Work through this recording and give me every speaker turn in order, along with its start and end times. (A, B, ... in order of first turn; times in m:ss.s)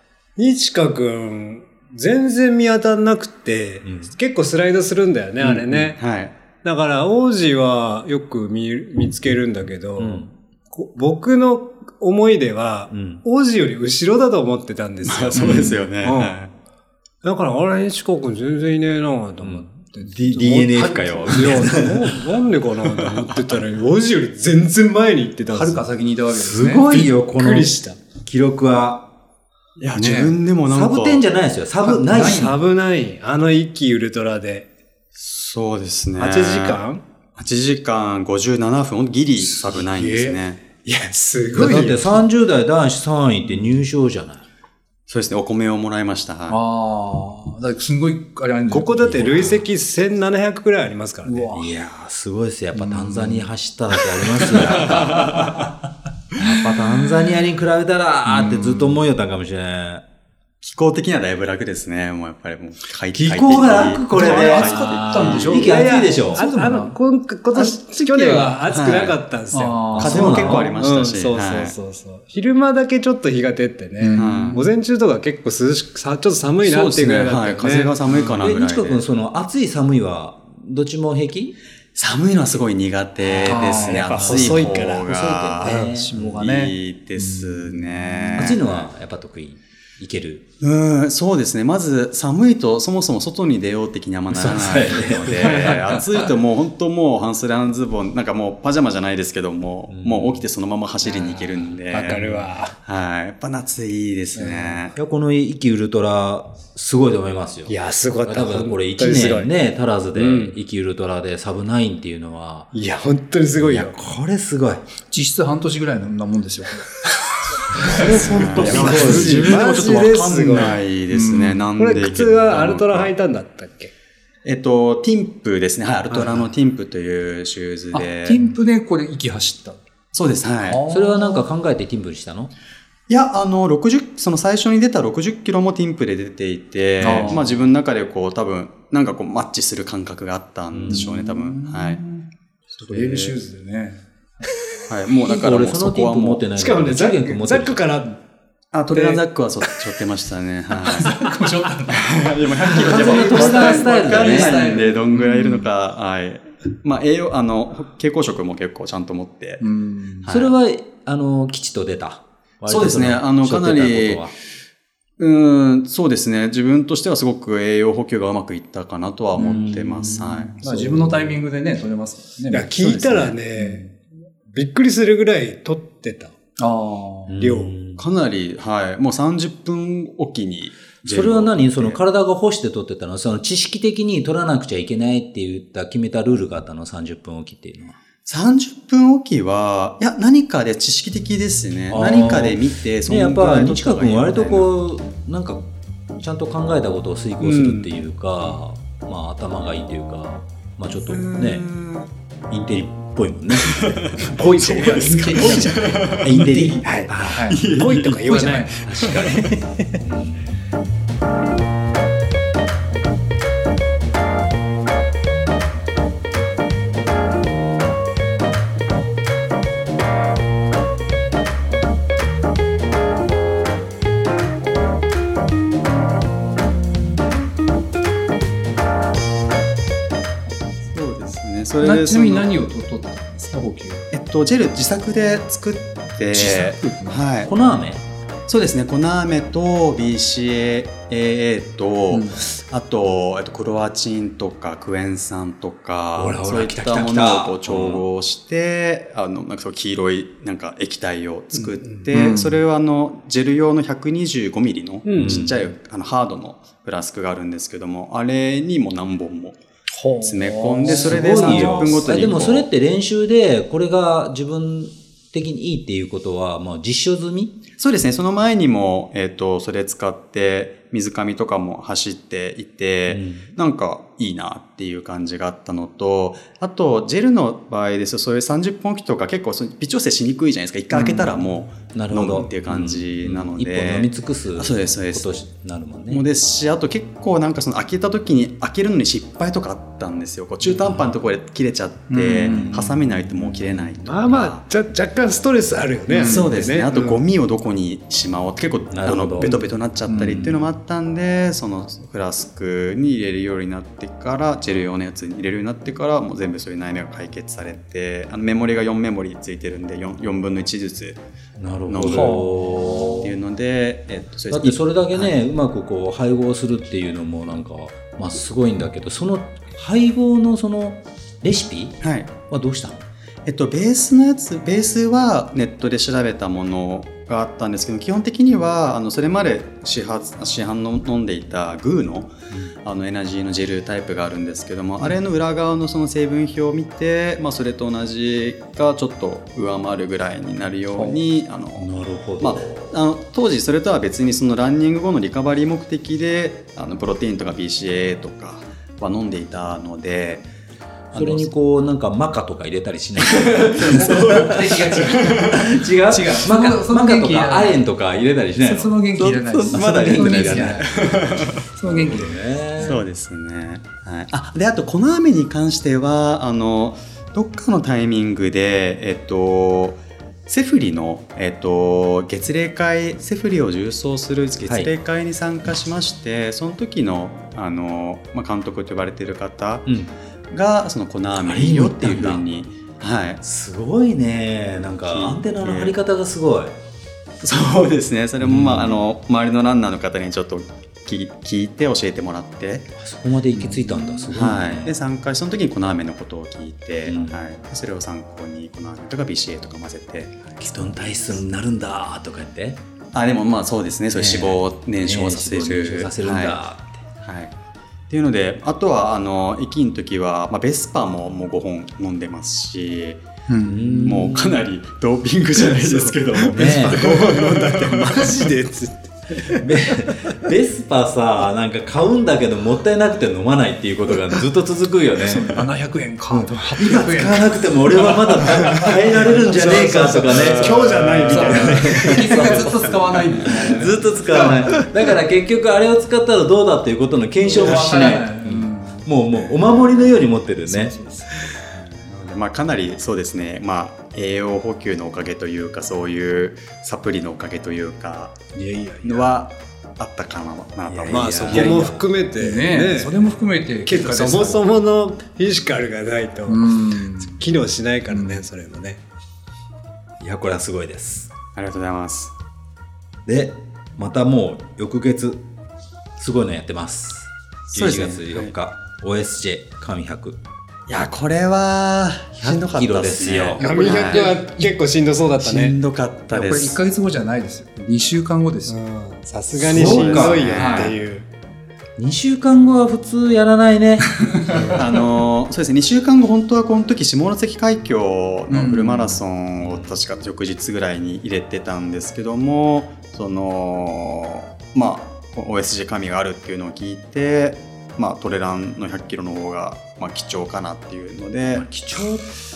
0:00.4-0:06.0 A
0:03.8-0:04.1 B
0:05.4-0:06.3 C
0:06.6-0:16.4 A
0:10.0-0:10.3 B
0:12.9-0:13.2 B
0:15.0-0:16.5 C
0:17.2-0:25.8 A
0:19.4-0:22.2 B
0:21.3-0:21.9 D
0:23.2-0:23.6 C
0:25.5-0:26.9 D
0:26.3-0:29.1 B
0:26.9-0:28.0 A
0:29.8-0:31.2 C
0:30.0-0:30.4 D
0:30.7-0:32.6 B
0:31.8-0:32.6 D
0:32.1-0:34.7 A
0:35.2-0:36.8 C
0:36.2-0:37.0 A
0:37.4-0:40.6 C
0:39.4-0:40.4 D
0:40.8-0:42.2 A
0:41.6-0:44.4 B
0:41.6-0:42.0 D
0:45.1-0:46.6 C
0:46.5-0:49.5 D
0:48.7-0:51.5 A
0:49.0-0:49.6 B
0:51.2-0:51.7 D
0:51.5-0:55.6 B
0:52.8-0:53.5 D
0:54.7-0:55.5 D
0:56.3-1:00.0 B
0:58.3-0:59.0 D
1:00.6-1:05.6 C
1:03.1-1:06.4 B
1:04.1-1:07.0 D
1:05.2-1:18.0 A
1:07.5-1:09.2 C
1:09.5-1:10.7 D
1:09.9-1:10.7 B
1:10.0-1:11.8 C
1:14.0-1:14.7 D
1:14.2-1:14.6 C
1:16.6-1:19.0 C
1:18.4-1:21.6 B
1:22.0-1:28.9 C
1:23.3-1:24.2 D
1:23.4-1:25.1 A
1:24.2-1:26.1 B
1:25.6-1:28.6 D
1:28.4-1:30.4 B
1:30.6-1:42.2 C
1:34.3-1:36.1 B
1:35.5-1:35.8 A
1:39.9-1:40.5 B
1:41.1-1:42.5 B
1:41.9-1:42.8 A
1:42.8-1:44.9 C
1:44.9-1:52.7 B
1:47.7-1:49.5 A
1:50.2-1:50.6 A
1:52.7-1:54.0 A
1:53.6-1:54.8 B
1:55.1-2:01.7 D
1:57.8-1:59.6 B
1:57.9-2:00.8 A
1:58.2-2:03.1 C
2:01.8-2:03.9 A
2:04.4-2:08.4 C
2:07.9-2:09.8 D
2:10.1-2:10.8 C
2:10.7-2:11.5 D
2:10.9-2:12.5 B
2:13.1-2:22.0 C
2:17.0-2:17.6 D
2:17.0-2:17.4 B
2:20.7-2:21.1 B
2:20.9-2:22.3 D
2:22.8-2:24.5 D
2:22.8-2:23.3 C
2:24.9-2:26.4 C
2:25.2-2:27.8 B
2:26.6-2:28.2 A
2:28.7-2:31.2 C
2:28.9-2:29.2 A
2:30.9-2:35.6 D
2:31.9-2:39.6 C
2:32.7-2:34.7 B
2:39.6-2:40.3 D
2:40.2-2:40.5 C
2:40.3-2:44.3 B
2:42.7-2:44.3 C
2:45.2-2:50.6 C
2:49.4-2:53.9 D
2:49.4-2:50.2 B
2:50.6-2:51.3 A
2:52.5-2:54.0 A
2:54.5-2:56.3 A
2:56.6-2:57.3 D
2:57.3-2:58.0 B
2:57.4-2:57.7 A
2:58.0-3:02.0 C
3:01.0-3:08.0 B
3:08.3-3:14.7 C
3:11.9-3:15.6 B
3:16.2-3:21.7 B
3:17.5-3:17.9 A
3:21.1-3:22.1 C
3:22.5-3:24.2 B
3:23.7-3:26.3 C
3:24.2-3:27.7 D
3:24.9-3:25.5 A
3:26.2-3:27.5 B
3:26.8-3:30.0 A
3:27.5-3:29.4 C
3:28.2-3:28.8 D
3:29.0-3:29.4 B
3:30.0-3:30.6 B
3:50.9-3:52.5 C
3:51.8-3:54.1 D
3:54.1-3:57.5 C
3:56.3-3:57.2 D
3:57.4-3:58.0 B
3:58.5-4:19.6 C
4:02.1-4:02.4 D
4:06.2-4:08.1 B
4:12.1-4:12.6 D
4:15.0-4:15.5 A
4:15.2-4:15.6 B
4:20.0-4:22.2 D
4:20.2-4:22.7 C
4:20.9-4:27.6 B
4:27.8-4:45.3 C
4:33.1-4:33.5 B
4:41.0-4:46.2 B
4:46.1-4:54.6 C
4:50.8-4:51.1 B
4:52.1-4:53.0 D
4:52.5-4:52.9 B
4:54.0-4:57.2 A
4:56.1-4:56.6 D
4:56.2-5:11.2 C
4:58.9-4:59.6 B
4:59.4-5:00.6 D
5:11.6-5:13.3 B
5:11.9-5:15.4 C
5:12.0-5:13.3 D
5:14.5-5:23.0 B
5:22.0-5:22.3 C
5:23.5-5:32.3 C
5:32.5-5:32.8 B
5:32.8-5:50.5 C
5:40.9-5:41.2 D
5:41.8-5:43.0 B
5:51.1-6:03.0 B
5:51.2-5:51.4 C
5:53.8-5:57.8 D
5:58.6-6:01.0 D
5:59.7-6:01.6 C
6:01.7-6:03.0 D
6:02.8-6:19.9 C
6:14.6-6:14.9 B
6:19.9-6:20.1 B
6:20.5-6:23.4 C
6:21.4-6:22.4 B
6:23.4-6:26.8 B
6:25.1-6:26.0 C
6:27.4-6:32.9 C
6:28.4-6:29.0 B
6:33.0-6:35.0 B
6:33.6-6:34.3 D
6:34.3-6:41.4 C
6:37.1-6:37.4 B
6:40.6-6:42.8 B
6:43.1-6:46.6 C
6:44.1-6:47.0 B
6:47.2-6:47.5 C
6:48.1-6:53.2 C
6:53.5-6:54.4 D
6:53.6-6:54.6 B
6:54.0-6:58.2 C
6:55.7-7:00.1 A
6:56.5-6:57.2 B
6:59.5-7:05.7 B
7:05.2-7:14.9 D
7:06.3-7:21.0 B
7:08.8-7:12.7 A
7:17.4-7:19.1 D
7:20.6-7:21.4 D
7:21.6-7:28.4 C
7:28.6-7:29.3 D
7:29.0-7:32.0 C
7:30.9-7:32.0 B
7:31.1-7:33.2 A
7:32.4-7:34.7 D
7:33.9-7:39.0 A
7:36.5-7:37.4 D
7:38.1-7:38.4 D
7:40.2-7:41.3 B
7:41.6-7:42.3 C
7:43.3-7:45.4 B
7:46.2-7:50.4 B
7:47.7-7:48.5 C
7:50.9-7:54.3 C
7:52.4-7:53.6 B
7:53.6-7:54.7 D
7:53.6-7:55.8 A
7:55.4-7:56.8 C
7:56.3-7:58.8 D
7:58.7-8:01.3 A
7:59.6-8:00.8 B
7:59.7-8:00.9 C
8:00.5-8:01.0 D
8:02.0-8:04.3 B
8:04.2-8:04.7 D
8:04.7-8:21.7 C
8:08.5-8:09.2 D
8:09.6-8:10.0 B
8:21.5-8:22.3 B